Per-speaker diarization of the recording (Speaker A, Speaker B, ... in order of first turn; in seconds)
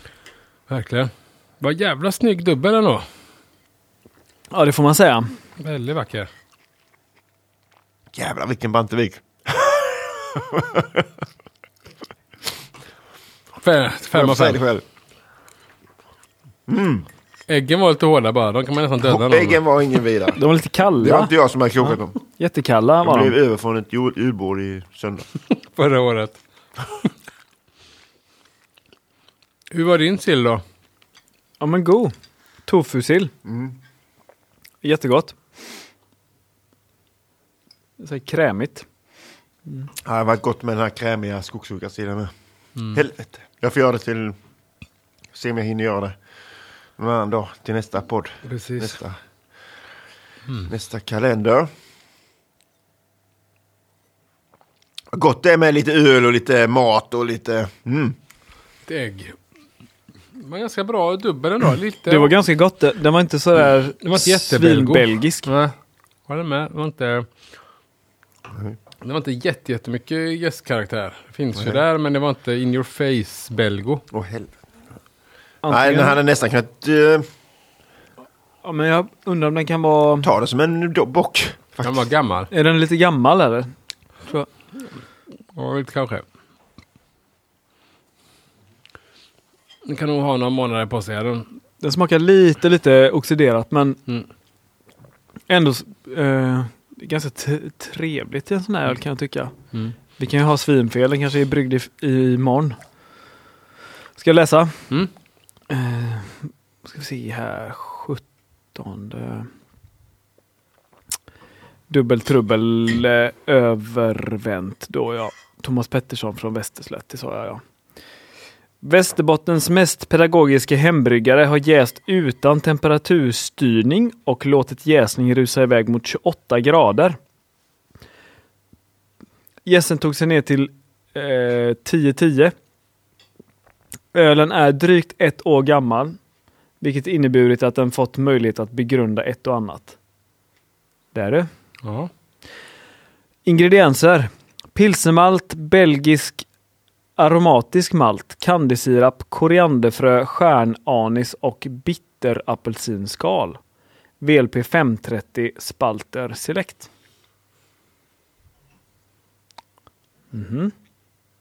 Speaker A: 0.7-1.1, 1.6-3.0, 5.6-6.3, 13.6-14.6, 17.5-19.6, 25.7-26.4, 29.7-30.6, 48.5-49.0, 58.9-59.3, 60.4-62.3, 64.0-65.7, 66.3-67.2, 69.0-74.0, 81.8-82.5, 85.5-86.2, 89.8-91.5, 141.8-142.1
Speaker B: 4.5-5.3, 20.4-23.4, 31.6-32.1, 32.6-33.3, 34.8-35.4, 38.0-38.8, 62.0-65.5, 75.6-76.2, 78.6-80.3, 82.5-83.7, 91.8-94.0, 95.5-99.5, 100.1-102.8, 104.2-104.8, 105.7-108.2, 108.7-109.5, 111.9-117.6, 118.8-127.2, 129.7-132.5, 134.1-136.2, 136.8-139.9, 141.1-141.5, 143.4-146.4, 147.2-153.6, 154.2-156.9, 160.3-160.7
Speaker C: 8.1-11.1, 14.1-14.8, 16.7-17.1, 19.0-20.4, 21.0-22.1, 23.0-25.2, 33.4-33.8, 40.0-42.3, 42.9-44.3, 45.3-46.1, 47.0-49.2, 50.6-51.7, 55.1-58.1, 71.5-71.8, 74.1-74.5, 75.7-77.2, 80.2-82.0